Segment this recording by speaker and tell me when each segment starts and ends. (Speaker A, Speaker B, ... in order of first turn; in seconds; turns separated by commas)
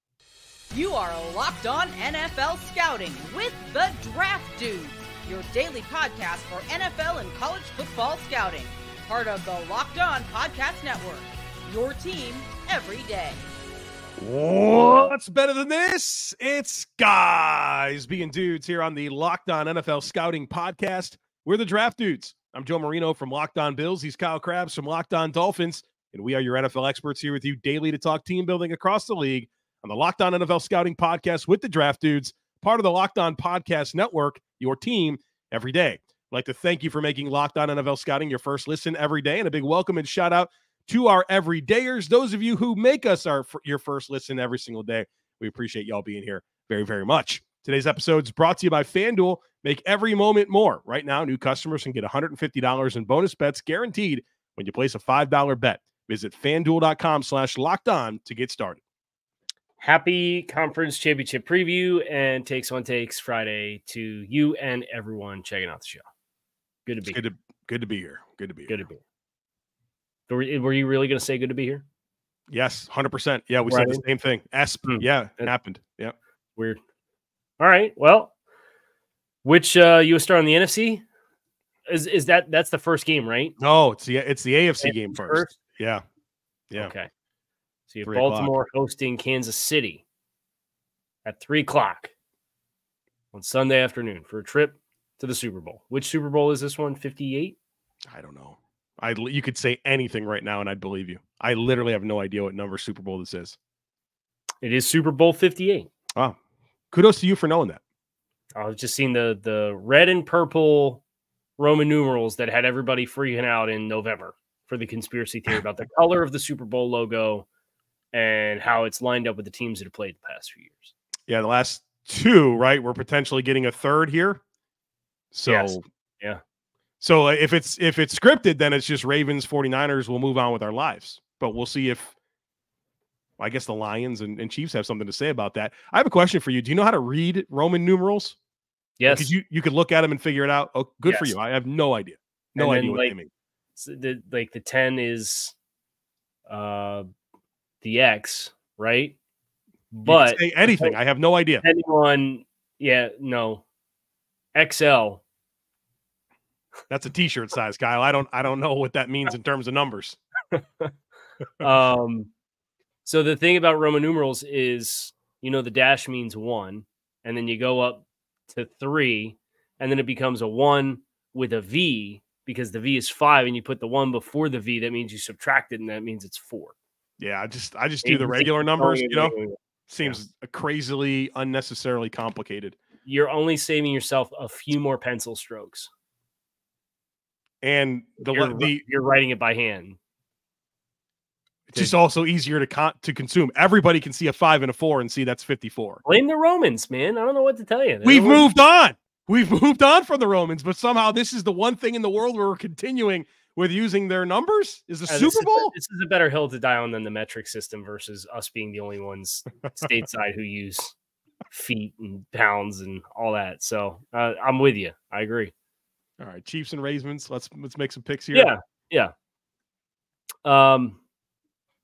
Speaker A: 0.7-13.4, Speaker B: 14.2-58.8, Speaker C: 59.8-66.0, Speaker C: 66.8-67.2, Speaker B: 67.0-68.8, Speaker C: 68.7-69.0, Speaker C: 70.3-71.8, Speaker B: 72.5-76.1, Speaker C: 73.7-74.0, Speaker C: 74.8-75.5, Speaker C: 77.6-78.3, Speaker C: 79.4-81.0, Speaker C: 81.8-83.5, Speaker B: 83.6-86.0, Speaker C: 84.8-85.6, Speaker C: 86.8-87.1, Speaker C: 87.9-90.0, Speaker B: 88.0-88.5, Speaker C: 91.2-92.1, Speaker C: 93.3-97.5, Speaker B: 98.1-103.6, Speaker C: 104.6-105.9, Speaker B: 106.9-107.8, Speaker C: 108.5-111.0, Speaker C: 111.6-117.5, Speaker C: 118.1-120.9, Speaker B: 121.3-124.4, Speaker B: 125.3-125.8, Speaker C: 125.5-126.4, Speaker B: 127.0-132.1, Speaker B: 133.4-138.4, Speaker C: 139.0-139.3, Speaker B: 139.1-143.3, Speaker C: 141.1-141.3, Speaker C: 142.6-143.1, Speaker C: 143.8-145.5, Speaker C: 146.5-147.1, Speaker C: 147.8-149.1, Speaker C: 149.9-151.0, Speaker B: 150.0-151.6, Speaker C: 151.6-153.6, Speaker C: 154.5-155.2, Speaker B: 156.9-160.2, Speaker C: 160.5-160.9, Speaker C: 161.6-162.3, Speaker C: 163.0-176.8, Speaker B: 177.2-179.3, Speaker C: 178.0-180.2, Speaker B: 179.9-182.8, Speaker C: 183.0-185.9, Speaker B: 187.6-188.8, Speaker C: 188.2-190.0, Speaker B: 191.7-196.0, Speaker C: 196.0-198.4, Speaker B: 198.0-205.7, Speaker C: 205.1-210.9, Speaker C: 211.5-215.5, Speaker B: 216.2-218.5, Speaker C: 218.3-219.1, Speaker C: 220.4-221.0